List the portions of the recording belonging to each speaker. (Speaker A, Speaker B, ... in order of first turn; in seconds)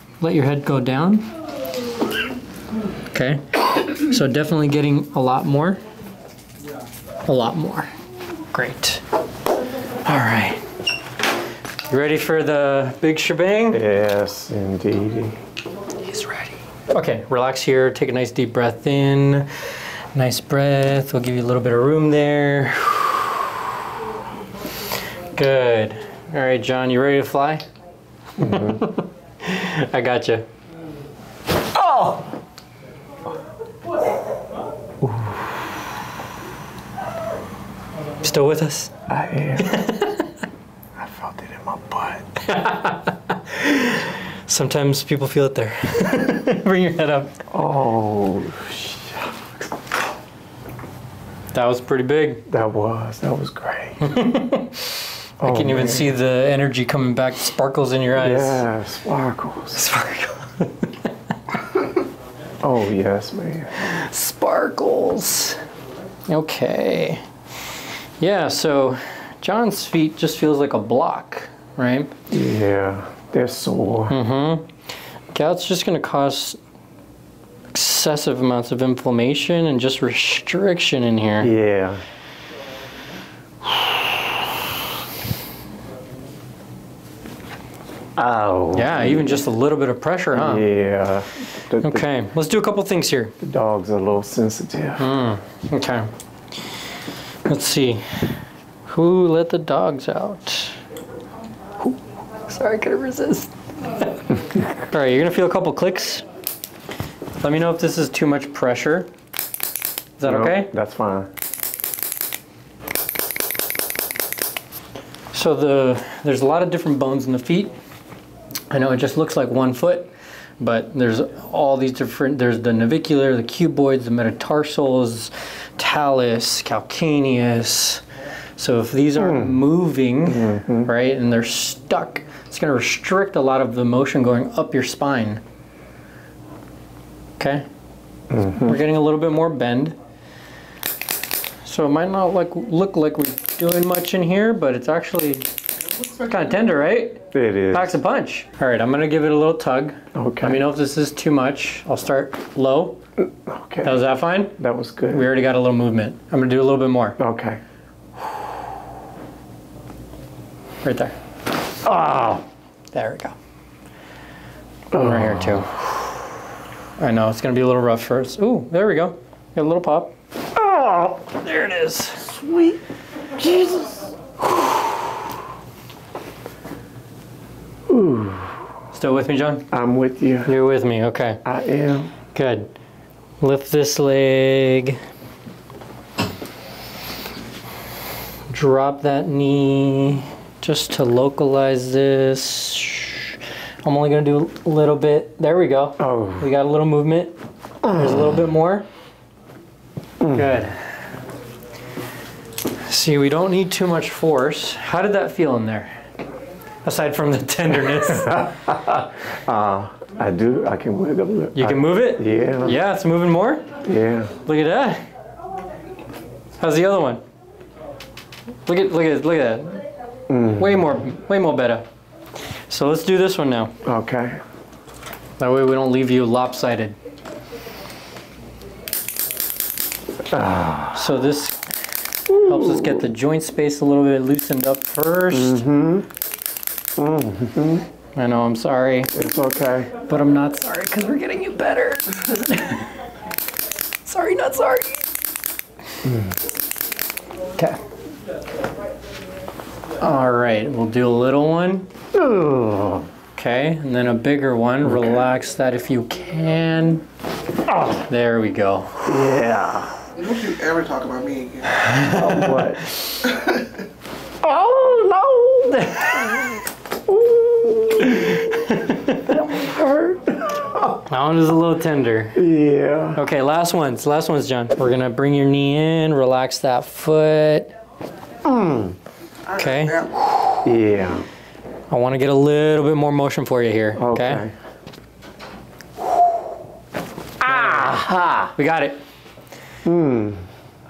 Speaker A: 0.2-1.3, 3.1-5.8, 7.2-7.9, 8.5-9.0, 10.0-10.6, 11.9-13.8, 16.0-23.4, 25.3-27.6, 28.4-30.5, 38.2-38.9, 39.6-40.2, 42.5-47.4, 51.5-52.4, 54.0-58.6, 59.8-61.1, 63.8-65.6, 66.3-67.2, 68.2-72.1, 74.1-74.7, 75.3-76.6, 77.7-81.5, 88.7-90.6, 91.8-93.3, 95.0-96.1, 97.5-100.8, 101.8-106.2, 107.4-109.1, 110.2-110.7, 115.3-117.7, 118.7-128.0, 128.6-135.4, 137.4-137.7, 138.6-139.9, 141.6-145.5, 146.3-153.0, 153.8-154.5, 155.1-157.2, 160.8-161.2, 162.9-163.3, 164.9-165.7, 167.0-170.1, 171.3-172.2, 178.9-179.7, 180.4-181.4, 182.3-182.7, 183.4-185.0, 188.5-197.3, 197.9-198.8, 200.3-200.8, 202.8-205.9, 206.8-208.5, 211.5-213.7, 214.4-215.0, 216.6-217.2, 218.7-219.8, 220.6-221.8, 222.7-223.7, 225.4-226.9, 230.9-231.7, 232.3-235.6, 238.1-239.1, 240.1-242.9, 244.1-245.0, 250.0-251.9, 253.3-257.0, 257.9-258.9, 261.8-262.7, 268.8-269.1, 271.1-272.4, 273.1-277.7, 279.6-280.6, 281.9-284.4, 287.4-288.0, 288.6-289.0
Speaker B: 13.7-15.4, 28.4-28.8, 31.8-32.2, 35.0-35.5, 39.1-39.9, 41.0-42.3, 47.5-49.4, 52.5-54.2, 55.4-56.1, 58.2-59.8, 62.6-63.9, 72.3-74.2, 81.4-82.0, 88.2-89.4, 90.3-92.0, 93.4-95.1, 110.2-111.3, 129.2-129.6, 130.3-130.9, 138.3-138.8, 147.3-147.9, 150.1-150.6, 153.2-155.3, 157.2-157.6, 161.8-162.4, 164.9-165.6, 170.6-171.2, 172.2-172.8, 173.4-174.2, 177.9-178.6, 179.7-180.5, 181.4-182.1, 196.0-196.5, 197.8-198.4, 200.2-200.6, 207.8-212.8, 213.8-214.3, 220.3-220.8, 223.8-224.4, 230.3-231.0, 232.3-233.1, 235.3-236.1, 237.0-237.8, 239.1-239.9, 246.0-246.3, 252.1-253.1, 254.8-255.2, 259.0-259.9, 262.0-262.9, 264.4-266.3, 267.1-271.0, 272.3-273.2, 278.4-278.9, 280.6-281.2, 283.9-284.5, 287.4-288.5, 289.8-290.4
Speaker C: 145.8-146.6, 260.1-261.8, 263.2-263.8, 279.4-280.1